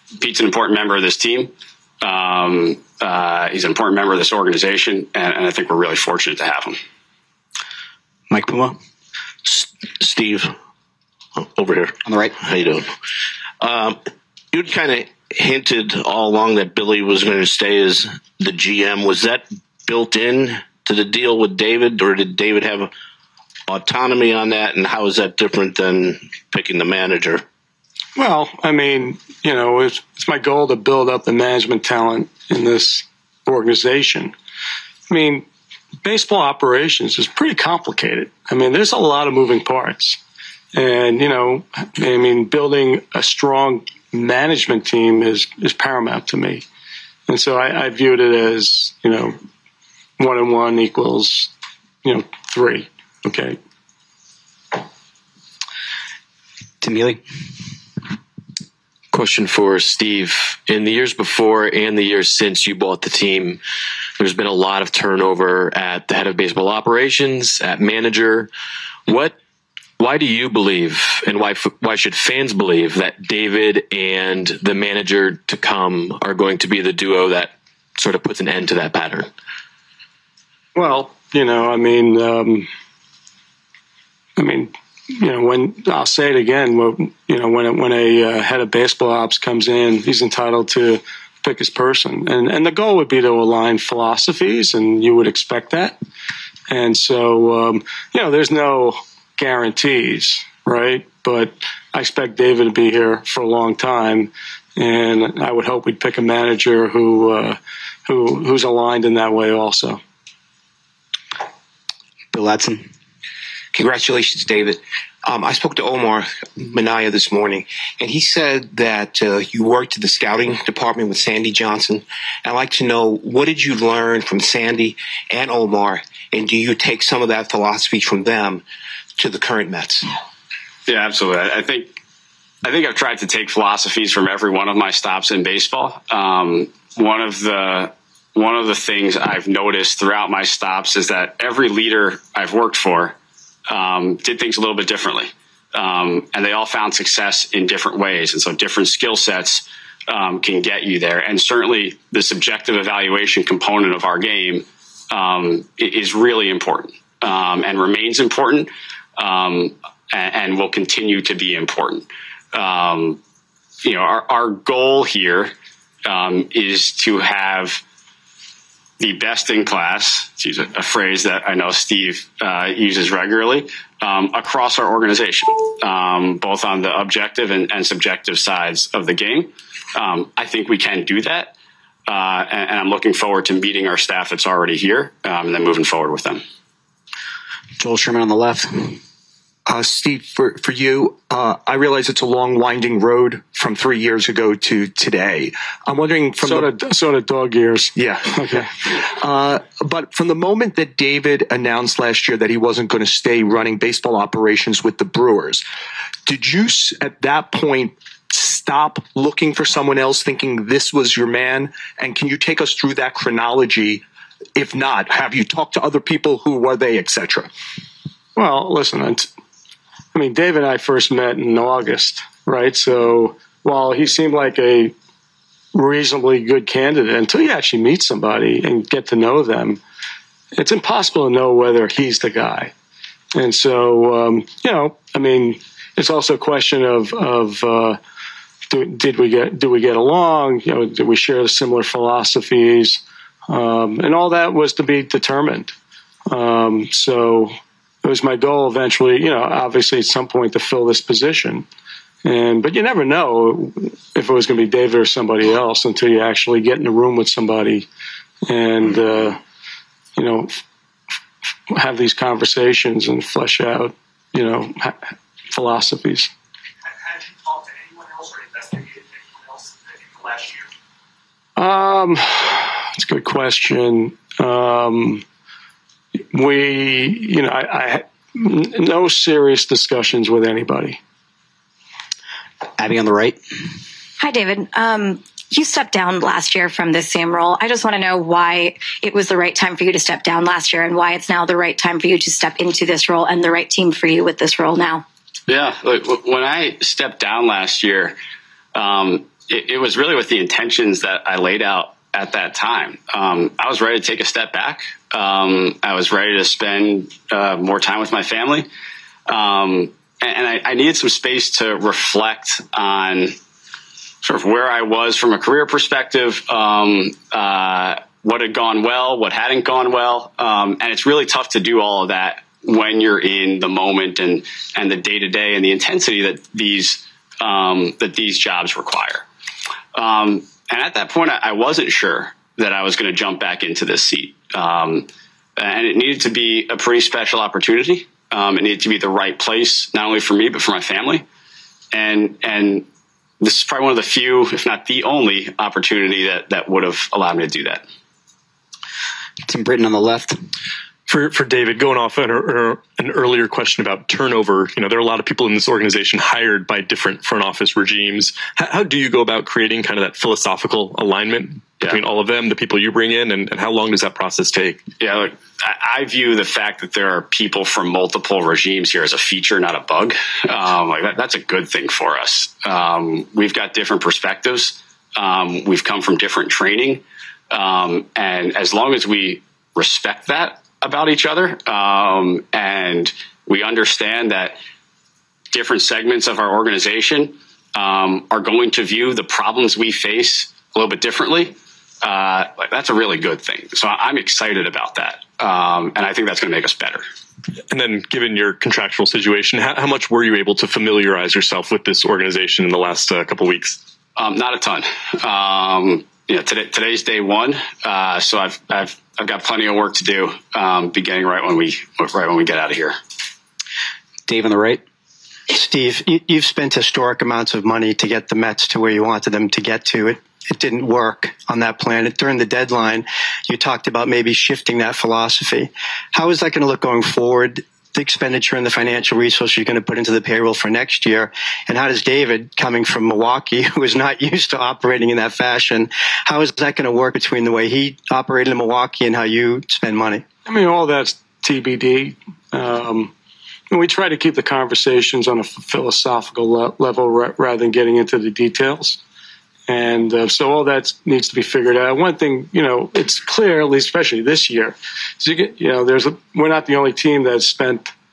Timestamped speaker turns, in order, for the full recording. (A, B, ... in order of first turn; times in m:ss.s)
0:00.2-0:06.8 A
0:08.3-0:08.8 B
0:09.4-0:10.5 C
0:11.4-0:12.9 C
0:12.0-0:12.4 B
0:13.6-0:14.0 C
0:14.5-0:22.9 C
0:23.7-0:27.4 C
0:28.2-0:34.4 D
0:35.1-0:35.5 D
0:36.0-0:40.2 D
0:40.7-0:46.7 D
0:47.3-0:49.4 D
0:50.2-0:51.5 D
0:52.0-0:53.6 D
0:56.8-0:57.2 B
0:59.1-1:03.6 E
1:04.2-1:08.5 E
1:09.1-1:09.4 E
1:10.0-1:19.3 E
1:20.8-1:22.7 D
1:24.4-1:36.0 D
1:36.7-1:50.0 D
1:52.3-1:52.9 B
1:53.7-2:08.6 F
2:09.2-2:10.0 F
2:10.9-2:12.0 A
2:12.6-2:23.2 A
2:23.7-2:43.2 A
2:43.8-2:45.5 A
2:46.1-2:47.8 A
2:49.0-3:01.6 A
3:02.1-3:06.4 A
3:07.8-3:09.0 B
3:09.7-3:16.7 G
3:16.4-3:18.7 D
3:18.0-3:25.6 G
3:26.3-3:34.0 G
3:34.6-3:37.5 G
3:38.4-3:39.3 D
3:40.1-3:44.9 D
3:45.7-3:49.8 D
3:50.6-3:52.7 D
3:53.4-3:58.0 D
3:58.7-4:05.7 D
4:06.3-4:11.7 D
4:12.2-4:17.9 D
4:18.5-4:19.4 D
4:20.2-4:20.6 D
4:21.7-4:26.3 D
4:31.6-4:35.2 D
4:36.3-4:41.0 D
4:42.8-4:43.4 B
4:44.2-4:55.0 H
4:55.5-4:58.2 A
4:58.7-5:08.7 A
5:09.3-5:13.4 A
5:14.2-5:29.2 A
5:29.9-5:41.2 A
5:41.9-5:42.9 A
5:43.4-5:47.8 A
5:49.5-5:50.4 B
5:51.1-6:04.8 I
6:05.0-6:24.6 A
6:25.5-6:37.0 A
6:37.7-6:43.8 I
6:44.2-6:53.0 A
6:54.3-6:54.8 B
6:55.5-7:20.2 J
7:20.5-7:23.1 D
7:23.7-7:29.0 D
7:29.7-7:37.9 D